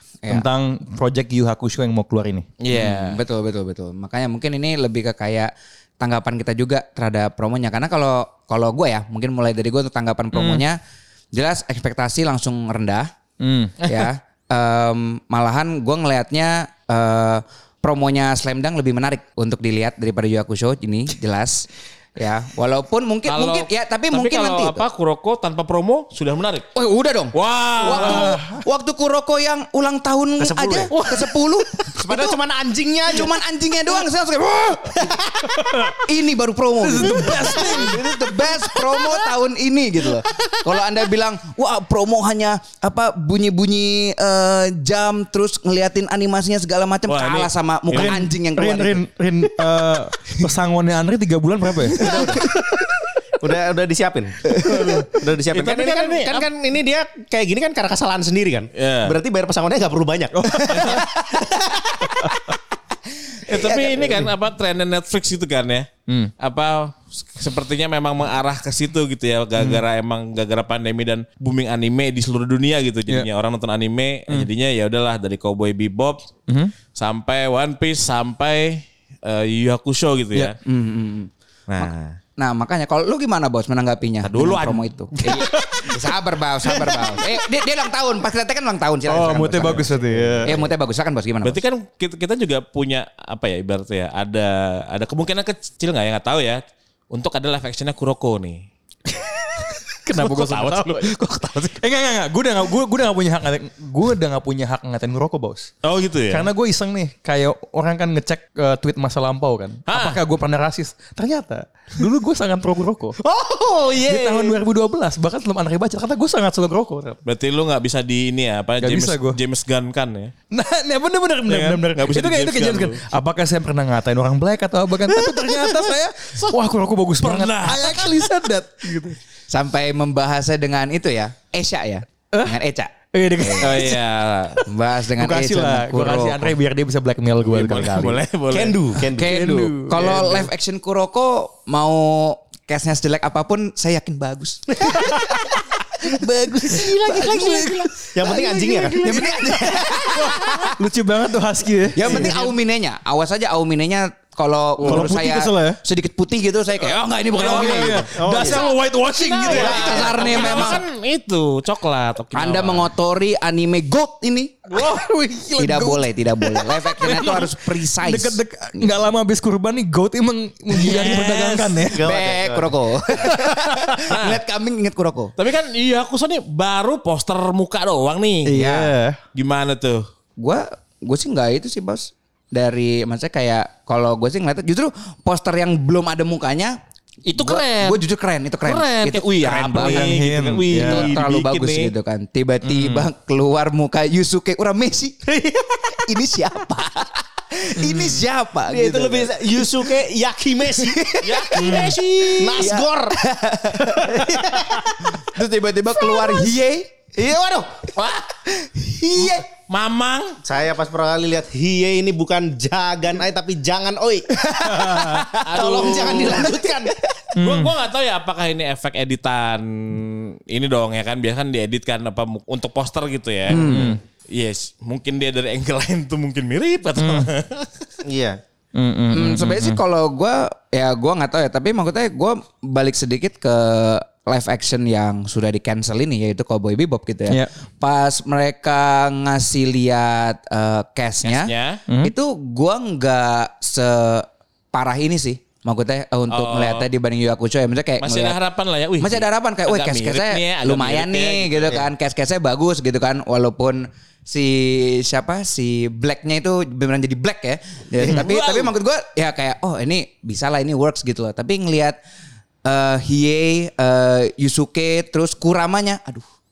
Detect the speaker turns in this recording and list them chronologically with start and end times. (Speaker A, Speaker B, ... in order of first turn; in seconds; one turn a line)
Speaker A: 0.3-2.5
Speaker B: 2.6-3.2
Speaker C: 2.7-10.8
Speaker A: 10.3-10.6
Speaker C: 11.3-13.1
Speaker A: 13.4-13.8
Speaker C: 13.8-24.8
Speaker B: 23.3-26.7
Speaker C: 26.7-32.4
Speaker B: 27.3-28.3
Speaker A: 27.8-28.6
Speaker D: 30.4-31.2
Speaker D: 31.8-33.4
Speaker C: 33.0-35.2
Speaker D: 35.0-35.9
Speaker C: 35.9-49.0
Speaker A: 36.8-38.2
Speaker B: 47.1-48.2
Speaker A: 47.9-52.4
Speaker D: 51.9-52.5
Speaker C: 52.0-52.4
Speaker D: 53.4-62.0
Speaker B: 54.6-56.5
Speaker A: 54.7-54.9
Speaker B: 58.8-59.2
Speaker A: 60.4-61.0
Speaker C: 63.4-64.3
Speaker B: 63.5-65.9
Speaker A: 66.1-66.3
Speaker B: 66.4-76.2
Speaker A: 69.6-69.8
Speaker A: 76.5-76.7
Speaker B: 76.9-80.5
Speaker C: 80.6-91.6
Speaker B: 81.7-82.2
Speaker B: 84.2-85.5
Speaker A: 85.3-86.0
Speaker A: 86.6-87.4
Speaker A: 89.1-90.7
Speaker B: 91.4-98.6
Speaker A: 99.1-101.1
Speaker B: 100.1-101.8
Speaker A: 101.8-105.7
Speaker B: 105.8-106.5
Speaker A: 106.3-113.2
Speaker B: 109.9-110.2
Speaker D: 113.3-114.4
Speaker A: 114.0-117.2
Speaker B: 117.2-120.3
Speaker A: 118.8-119.4
Speaker A: 120.5-129.2
Speaker B: 121.5-123.0
Speaker B: 125.1-126.6
Speaker B: 127.2-128.3
Speaker C: 129.5-133.9
Speaker A: 132.3-132.6
Speaker A: 133.1-134.0
Speaker B: 133.6-134.6
Speaker C: 134.6-136.5
Speaker A: 135.2-138.2
Speaker B: 137.5-139.0
Speaker D: 138.5-139.4
Speaker C: 139.1-147.7
Speaker A: 139.1-140.5
Speaker D: 144.8-145.4
Speaker A: 146.2-152.4
Speaker B: 146.7-149.3
Speaker D: 148.1-149.5
Speaker C: 149.0-150.7
Speaker B: 150.1-150.7
Speaker C: 151.9-158.0
Speaker B: 152.0-152.3
Speaker A: 154.8-155.8
Speaker B: 157.3-162.9
Speaker A: 157.3-160.7
Speaker D: 158.1-158.7
Speaker D: 159.4-160.7
Speaker C: 159.4-160.8
Speaker C: 162.3-164.6
Speaker A: 164.7-172.1
Speaker C: 165.6-168.4
Speaker B: 170.7-171.8
Speaker D: 171.8-172.8
Speaker C: 172.0-175.3
Speaker A: 173.3-173.9
Speaker B: 174.1-174.4
Speaker B: 175.4-178.5
Speaker A: 178.4-179.2
Speaker C: 178.5-178.9
Speaker B: 179.3-180.1
Speaker C: 180.4-186.8
Speaker B: 187.3-188.0
Speaker C: 187.3-190.2
Speaker B: 188.6-191.9
Speaker A: 189.7-191.2
Speaker C: 190.7-195.2
Speaker A: 192.6-193.1
Speaker D: 195.3-196.0
Speaker C: 196.0-199.7
Speaker A: 197.8-198.2
Speaker D: 198.7-203.2
Speaker C: 200.8-201.4
Speaker B: 201.2-202.7
Speaker A: 201.5-202.0
Speaker C: 202.5-204.3
Speaker D: 203.9-205.2
Speaker C: 205.2-206.9
Speaker D: 206.0-206.5
Speaker D: 207.1-207.9
Speaker B: 208.0-208.3
Speaker C: 208.7-209.4
Speaker B: 209.5-210.4
Speaker D: 210.4-216.9
Speaker C: 214.4-215.2
Speaker A: 214.6-215.3
Speaker B: 215.4-216.5
Speaker A: 217.3-217.7
Speaker B: 217.4-227.8
Speaker C: 223.5-224.0
Speaker A: 223.5-224.0
Speaker A: 227.0-227.3
Speaker D: 228.0-228.4
Speaker A: 228.7-229.8
Speaker C: 229.1-248.4
Speaker B: 241.2-241.8
Speaker A: 241.9-242.1
Speaker B: 246.3-246.9
Speaker B: 248.0-251.8
Speaker C: 249.0-262.0
Speaker B: 258.0-258.7
Speaker C: 262.6-266.2